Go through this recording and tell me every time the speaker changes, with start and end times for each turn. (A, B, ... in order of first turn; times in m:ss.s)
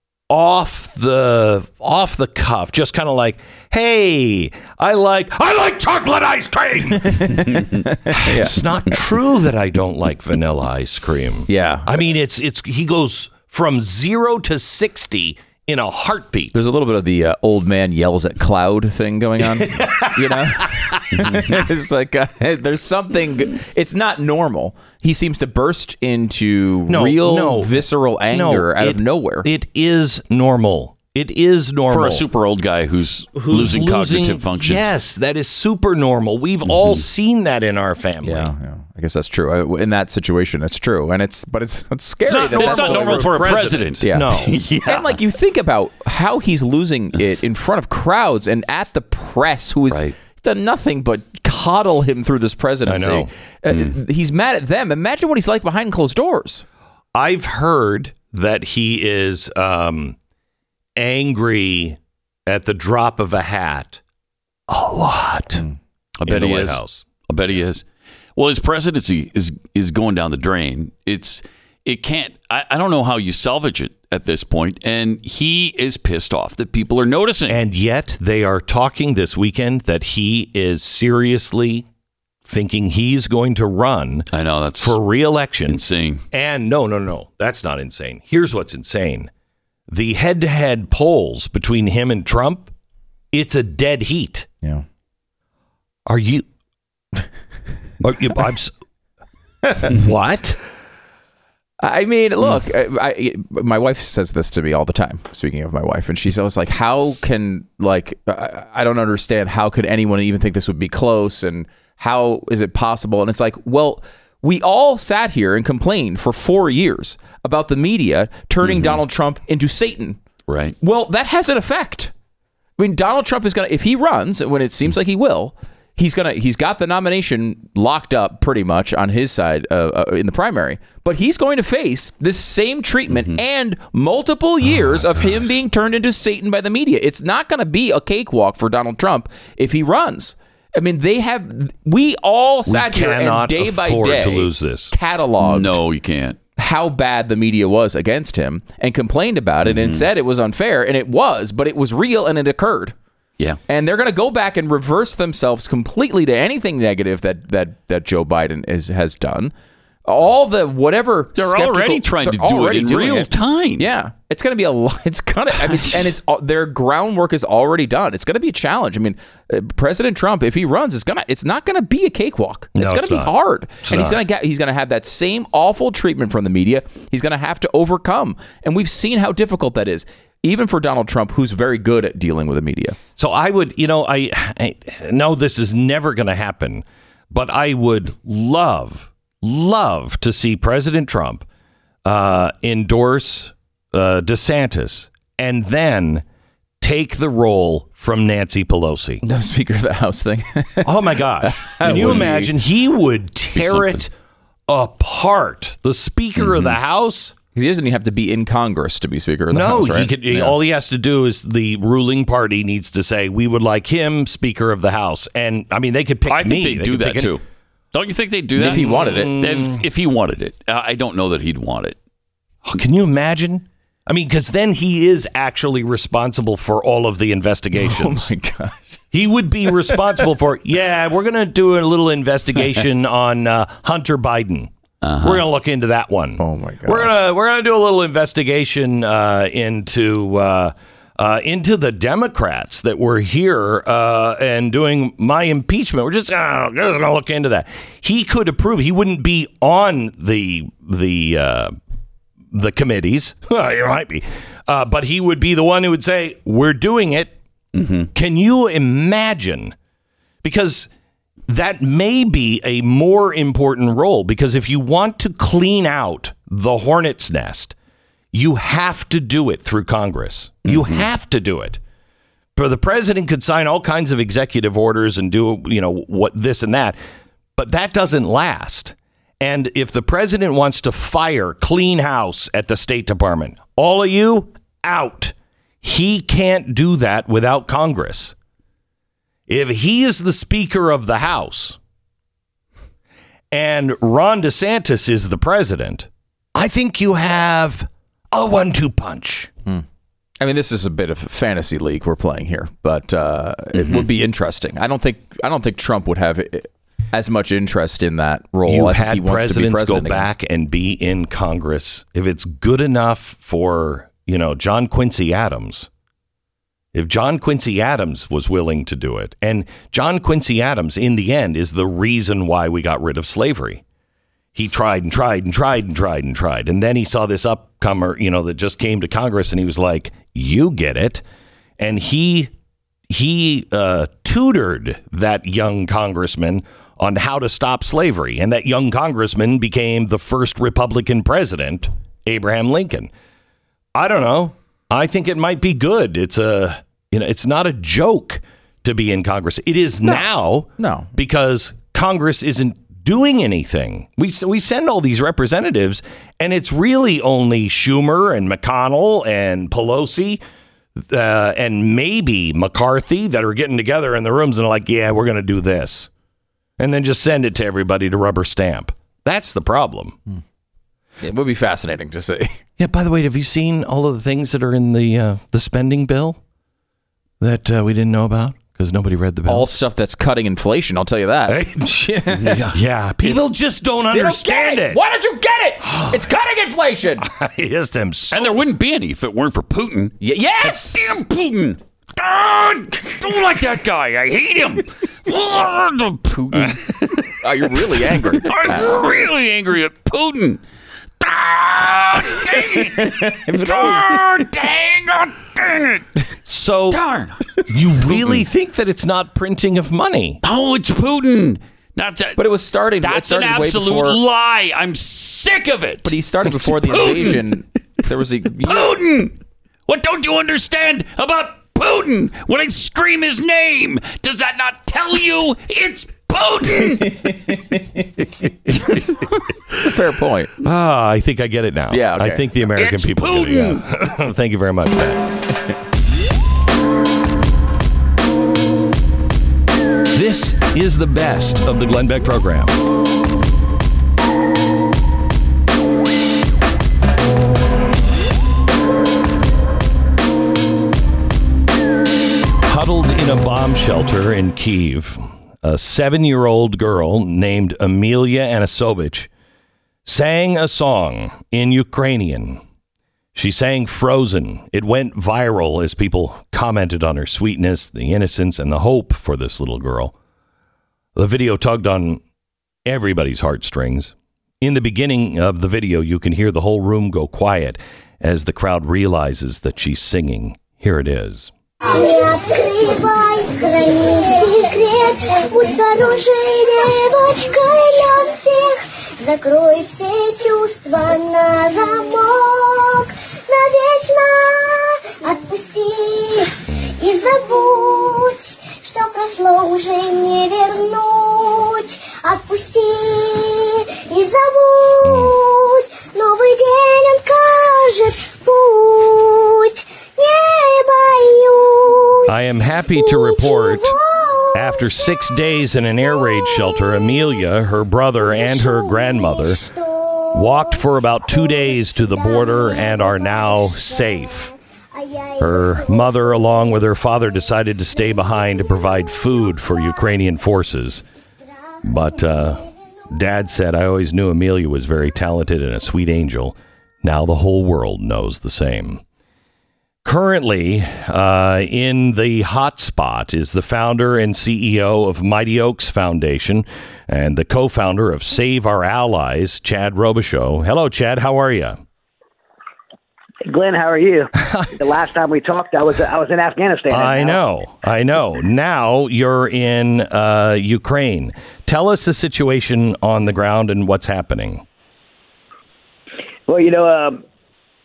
0:00.3-0:07.6 A
0:07.0-0:08.6 B
0:08.2-0:16.5 A
0:11.5-0:11.9 B
0:16.5-0:29.5 B
0:19.6-0:21.3 A
0:26.9-0:32.2 A
0:31.9-0:34.9 C
0:33.3-0:38.5 A
0:36.8-0:37.0 C
0:38.2-0:43.4 B
0:42.2-0:44.6 A
0:42.5-0:45.2 C
0:44.0-0:56.6 B
0:52.8-0:53.3 A
0:53.7-0:54.0 C
0:57.1-1:00.2 A
1:01.0-1:04.0 A
1:04.7-1:05.6 A
1:06.2-1:07.8 C
1:06.2-1:07.0 A
1:08.4-1:17.6 C
1:17.5-1:21.8 A
1:22.4-1:24.3 A
1:24.3-1:25.0 C
1:24.8-1:25.8 A
1:25.7-1:26.2 C
1:26.3-1:29.3 A
1:29.9-1:32.7 A
1:33.3-1:34.5 A
1:36.0-1:36.4 A
1:38.0-1:38.7 A
1:39.8-1:40.6 A
1:41.8-2:00.2 B
1:58.6-1:59.0 C
2:00.5-2:00.7 C
2:00.8-2:02.1 B
2:02.8-2:25.8 B
2:22.7-2:24.9 A
2:25.4-2:26.4 C
2:26.6-2:32.9 B
2:29.7-2:30.0 C
2:33.7-2:39.5 B
2:40.0-3:03.0 B
2:41.4-2:43.9 C
2:45.6-2:46.0 C
2:52.8-2:54.2 A
3:03.2-3:11.4 A
3:12.0-3:16.2 A
3:16.8-3:19.2 A
3:19.2-3:22.5 B
3:20.8-3:24.1 A
3:21.8-3:22.2 C
3:23.6-3:24.0 C
3:24.7-3:27.3 A
3:26.5-3:26.7 C
3:27.5-3:30.6 B
3:29.5-3:37.3 A
3:36.2-3:37.4 C
3:37.9-3:42.0 C
3:38.6-3:39.4 B
3:38.6-3:39.8 A
3:42.6-3:48.3 A
3:47.8-3:48.8 B
3:49.1-3:54.7 A
3:49.9-3:50.2 B
3:55.0-3:55.4 C
3:55.2-4:11.7 A
3:56.4-3:57.2 B
4:12.5-4:17.3 A
4:17.7-4:18.1 C
4:18.1-4:19.7 A
4:20.4-4:20.9 A
4:21.5-4:27.7 A
4:28.3-4:31.8 A
4:30.6-4:31.0 C
4:32.6-4:37.0 A
4:37.6-4:48.3 A
4:49.5-4:51.8 A
4:53.5-4:59.5 A
5:00.4-5:10.3 B
5:03.8-5:04.0 C
5:08.6-5:15.9 A
5:16.9-5:23.8 A
5:24.5-5:31.2 A
5:31.8-5:32.5 A
5:33.1-5:43.1 A
5:43.9-6:00.4 A
5:50.8-5:51.1 B
6:01.0-6:06.1 A
6:06.8-6:10.2 A
6:11.2-6:12.6 B
6:12.8-6:16.4 A
6:17.4-6:19.7 A
6:19.4-6:23.4 B
6:21.5-6:22.1 A
6:22.3-6:22.8 C
6:22.7-6:25.0 A
6:24.1-6:27.2 B
6:25.8-6:26.2 A
6:27.2-6:28.6 A
6:28.3-6:37.4 C
6:30.2-6:31.2 B
6:36.5-6:36.8 B
6:37.4-6:39.0 B
6:38.1-6:40.6 C
6:41.2-6:46.1 C
6:42.6-6:44.2 B
6:46.5-6:47.0 A
6:46.9-6:47.4 C
6:47.7-6:50.4 A
6:50.4-6:52.4 C
6:52.4-6:54.2 B
6:53.0-6:57.4 C
6:56.0-6:58.9 B
6:58.6-6:59.3 C
6:59.9-7:07.4 C
7:07.0-7:08.2 B
7:09.8-7:10.5 B
7:10.6-7:15.3 A
7:11.9-7:12.4 B
7:12.8-7:13.8 C
7:20.1-7:22.8 A
7:32.7-7:39.3 A
7:40.0-7:42.6 A
7:43.3-7:50.1 A
7:51.2-7:52.2 A
7:52.8-8:01.5 A
8:01.8-8:35.4 D
8:25.0-8:25.4 A
8:32.3-8:34.0 A
8:34.5-8:39.6 A
8:36.3-8:37.2 D
8:38.2-8:40.8 D
8:40.3-8:44.5 A
8:41.3-8:46.1 D
8:45.4-8:51.0 A
8:51.8-8:59.0 A
9:00.0-9:11.8 A
9:13.4-9:17.4 E
9:16.9-9:24.6 A
9:26.5-9:27.2 E